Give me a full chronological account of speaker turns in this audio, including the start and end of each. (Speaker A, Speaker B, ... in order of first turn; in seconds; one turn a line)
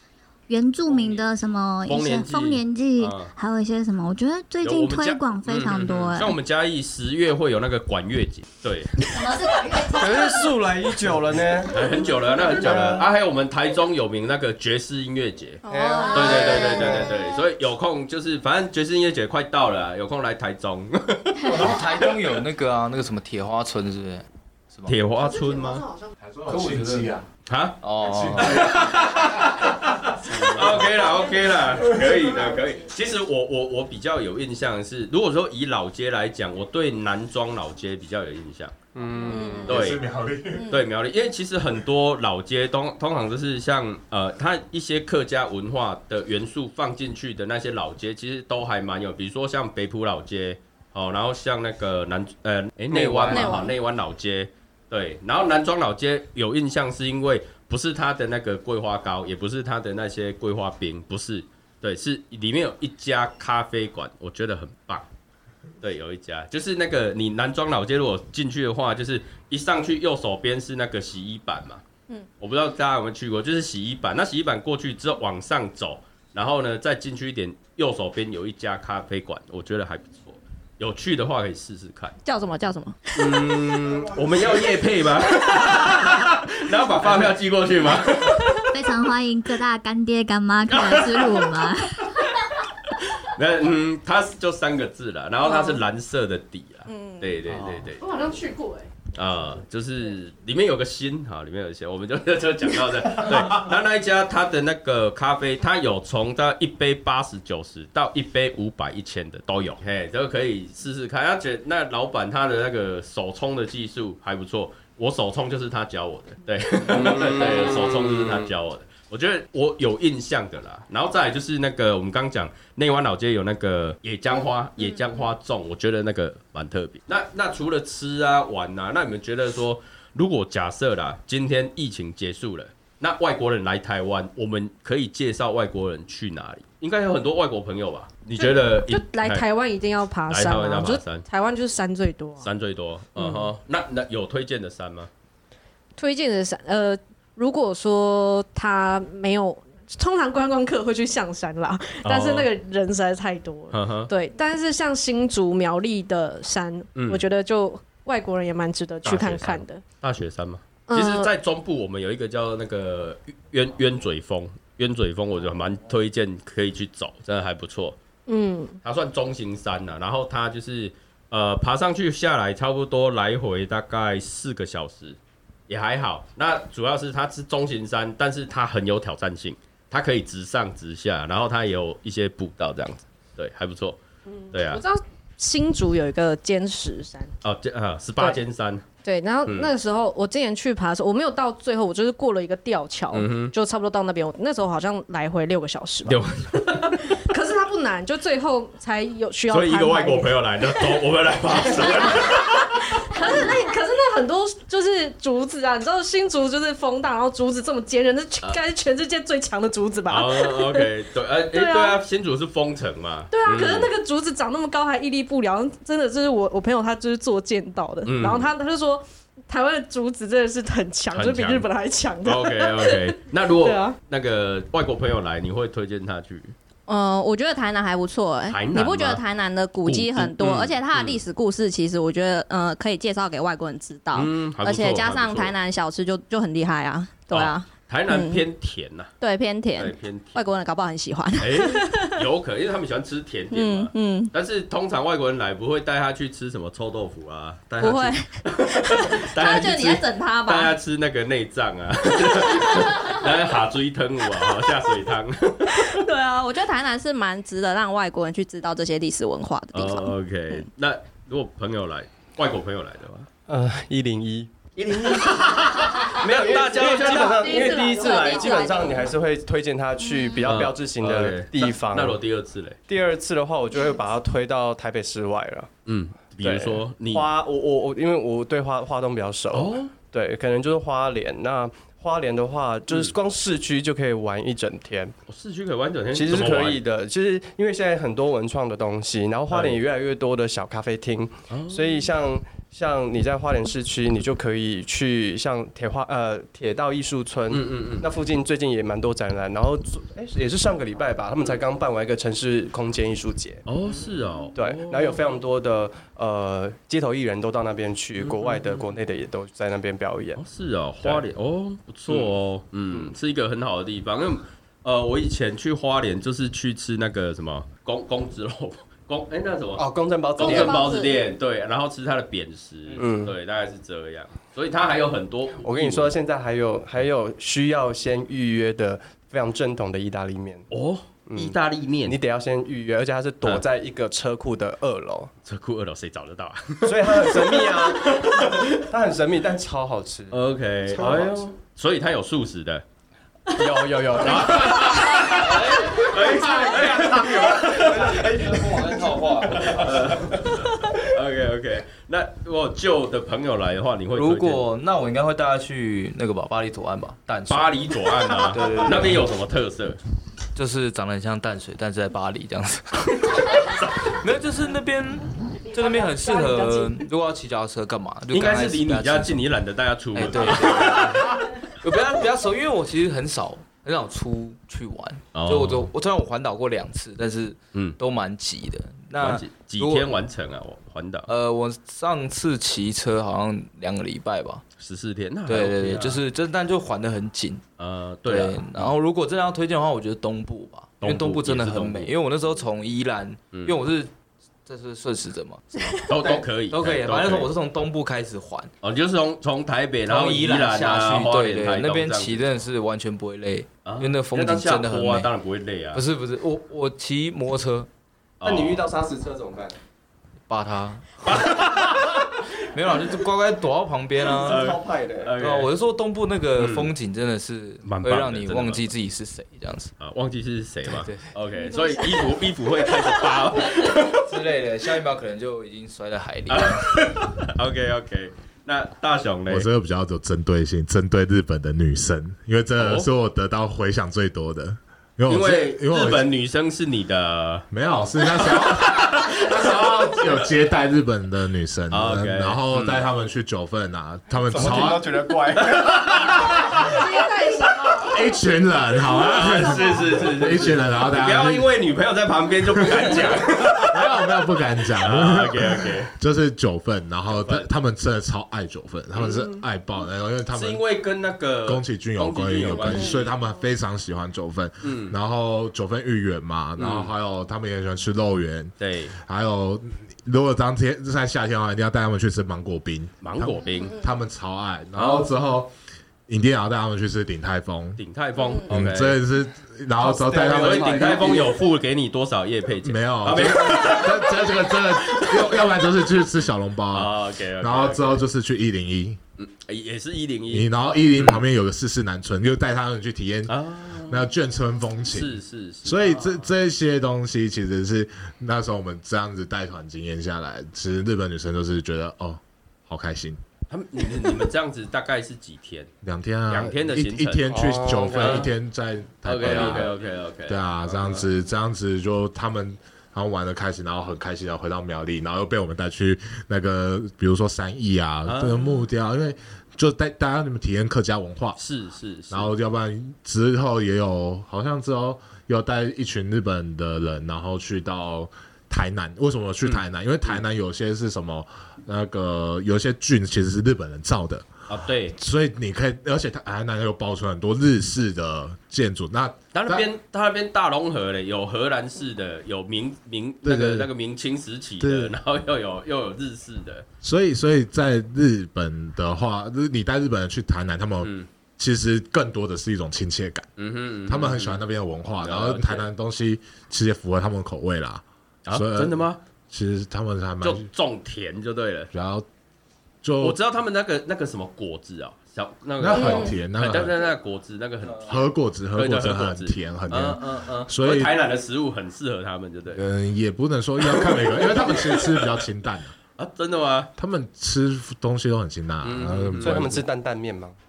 Speaker A: 0.5-6.4
Speaker B: 1.9-3.3
Speaker B: 4.6-9.0
Speaker A: 9.1-10.3
Speaker C: 9.8-13.1
Speaker B: 11.7-21.8
Speaker D: 15.6-16.7
Speaker C: 15.7-17.1
Speaker E: 21.4-24.9
Speaker B: 24.9-25.8
Speaker F: 25.2-26.1
Speaker G: 26.2-27.2
Speaker E: 26.5-27.2
Speaker B: 27.5-27.8
Speaker E: 27.8-28.7
Speaker G: 28.0-29.6
Speaker B: 28.4-38.7
Speaker G: 30.3-30.8
Speaker E: 30.4-30.8
Speaker G: 31.7-32.2
Speaker C: 39.0-39.7
Speaker G: 39.0-40.7
Speaker D: 39.3-39.7
Speaker B: 39.6-40.0
Speaker D: 40.5-40.8
Speaker B: 40.7-65.0
Speaker C: 53.0-53.4
Speaker D: 53.3-53.7
Speaker B: 65.8-71.8
Speaker B: 72.4-82.1
Speaker D: 82.2-83.6
Speaker B: 83.1-88.6
Speaker A: 88.7-92.1
Speaker B: 90.7-92.3
Speaker B: 92.9-98.0
Speaker D: 96.9-97.3
Speaker F: 98.0-98.9
Speaker B: 99.1-139.4
Speaker C: 116.9-118.5
Speaker F: 138.3-142.5
Speaker B: 140.3-141.2
Speaker B: 142.4-145.1
Speaker F: 143.2-143.5
Speaker F: 146.0-159.8
Speaker B: 152.0-152.5
Speaker B: 153.7-154.1
Speaker B: 156.9-157.2
Speaker B: 159.0-168.0
Speaker F: 160.9-161.3
Speaker F: 168.3-168.8
Speaker B: 168.8-175.2
Speaker B: 175.7-184.0
Speaker F: 184.3-187.3
Speaker B: 184.5-184.8
Speaker B: 187.4-188.8
Speaker F: 189.0-201.0
Speaker B: 193.1-193.5
Speaker B: 196.0-197.2
Speaker B: 199.5-202.8
Speaker F: 201.6-210.9
Speaker B: 210.1-213.9
Speaker F: 211.5-212.0
Speaker F: 213.3-224.0
Speaker B: 218.0-218.5
Speaker B: 221.1-221.7
Speaker B: 222.2-226.5
Speaker D: 226.9-238.4
Speaker B: 228.5-229.2
Speaker B: 229.8-231.2
Speaker B: 234.1-235.5
Speaker B: 237.3-239.1
Speaker D: 239.2-242.2
Speaker B: 239.7-240.4
Speaker B: 241.4-256.0
Speaker D: 243.5-244.3
Speaker D: 247.8-250.7
Speaker D: 252.5-253.2
Speaker D: 255.8-260.6
Speaker B: 259.7-263.3
Speaker C: 263.5-272.2
Speaker B: 264.9-267.7
Speaker F: 266.9-268.9
Speaker D: 267.2-269.1
Speaker B: 270.4-272.8
Speaker C: 272.9-275.7
Speaker B: 275.9-277.3
Speaker C: 276.4-285.1
Speaker B: 279.5-279.9
Speaker B: 285.3-286.8
Speaker C: 286.1-303.7
Speaker B: 289.5-289.8
Speaker B: 291.5-292.1
Speaker B: 297.5-298.1
Speaker B: 303.6-305.2
Speaker C: 304.5-310.4
Speaker B: 308.2-308.8
Speaker B: 310.4-326.1
Speaker C: 312.1-312.3
Speaker C: 319.8-320.9
Speaker D: 320.4-321.1
Speaker C: 323.0-323.3
Speaker C: 325.6-330.7
Speaker B: 330.7-332.2
Speaker C: 331.3-335.3
Speaker B: 335.4-338.8
Speaker C: 336.8-341.4
Speaker B: 340.3-342.8
Speaker C: 343.5-345.4
Speaker B: 344.2-348.2
Speaker E: 345.2-350.2
Speaker C: 346.0-350.4
Speaker B: 349.6-354.6
Speaker E: 354.1-359.3
Speaker B: 357.5-360.0
Speaker E: 360.5-369.4
Speaker B: 368.3-371.2
Speaker E: 370.1-380.1
Speaker B: 375.3-375.9
Speaker B: 379.2-381.3
Speaker E: 381.3-384.6
Speaker B: 384.8-386.2
Speaker E: 385.5-387.6
Speaker B: 387.8-388.9
Speaker E: 388.2-394.1
Speaker B: 391.0-392.1
Speaker E: 394.6-398.7
Speaker B: 396.0-397.5
Speaker B: 398.8-402.4
Speaker E: 400.1-405.3
Speaker B: 403.8-406.0
Speaker E: 405.9-407.9
Speaker B: 408.4-408.8
Speaker C: 408.4-409.8
Speaker E: 410.5-411.9
Speaker B: 411.2-412.2
Speaker E: 412.7-414.7
Speaker C: 414.3-415.3
Speaker B: 414.4-415.7
Speaker E: 415.4-419.9
Speaker B: 416.6-416.9
Speaker B: 417.8-418.9
Speaker B: 420.0-424.2
Speaker E: 420.9-421.3
Speaker E: 423.8-427.0
Speaker B: 426.5-429.7
Speaker G: 429.5-436.3
Speaker B: 432.8-433.1
Speaker B: 435.3-437.7
Speaker G: 437.7-445.1
Speaker B: 438.4-440.3
Speaker B: 441.9-443.1
Speaker C: 444.4-446.4
Speaker B: 445.7-446.3
Speaker G: 446.1-447.0
Speaker F: 446.8-448.2
Speaker G: 448.0-451.7
Speaker B: 449.0-454.2
Speaker G: 452.6-460.8
Speaker B: 455.0-456.1
Speaker B: 457.3-457.7
Speaker B: 459.1-459.5
Speaker B: 460.5-463.3
Speaker G: 461.6-475.7
Speaker B: 464.8-465.1
Speaker B: 466.8-467.1
Speaker B: 468.8-469.1
Speaker B: 473.2-474.0
Speaker B: 474.9-475.3
Speaker G: 476.3-478.0
Speaker B: 478.0-479.2
Speaker G: 478.6-481.4
Speaker C: 480.0-481.6
Speaker B: 480.4-485.6
Speaker G: 482.8-489.2
Speaker B: 486.9-488.2
Speaker B: 489.4-491.4
Speaker G: 490.5-503.4
Speaker B: 493.5-494.3
Speaker B: 495.1-496.5
Speaker B: 503.7-505.9
Speaker G: 506.0-509.9
Speaker B: 506.5-507.5
Speaker C: 507.5-508.5
Speaker B: 508.1-508.5
Speaker B: 509.2-511.2
Speaker C: 509.4-509.9
Speaker G: 510.5-521.6
Speaker B: 518.2-518.8
Speaker B: 521.5-522.5
Speaker G: 522.3-534.5
Speaker B: 529.6-530.4
Speaker B: 534.7-535.1
Speaker G: 535.1-539.9
Speaker B: 539.5-546.8
Speaker G: 543.4-543.9
Speaker G: 544.8-545.1
Speaker G: 547.0-553.5
Speaker B: 551.0-551.3
Speaker B: 553.6-554.6
Speaker G: 554.0-560.7
Speaker B: 555.2-555.9
Speaker B: 558.5-559.2
Speaker B: 560.4-561.9
Speaker G: 561.9-562.2
Speaker G: 563.0-563.4
Speaker B: 563.2-572.8
Speaker G: 565.8-567.0
Speaker G: 568.0-571.1
Speaker G: 572.7-575.9
Speaker B: 573.9-575.2
Speaker B: 576.1-576.9
Speaker G: 577.0-579.8
Speaker B: 578.8-579.6
Speaker C: 579.4-580.5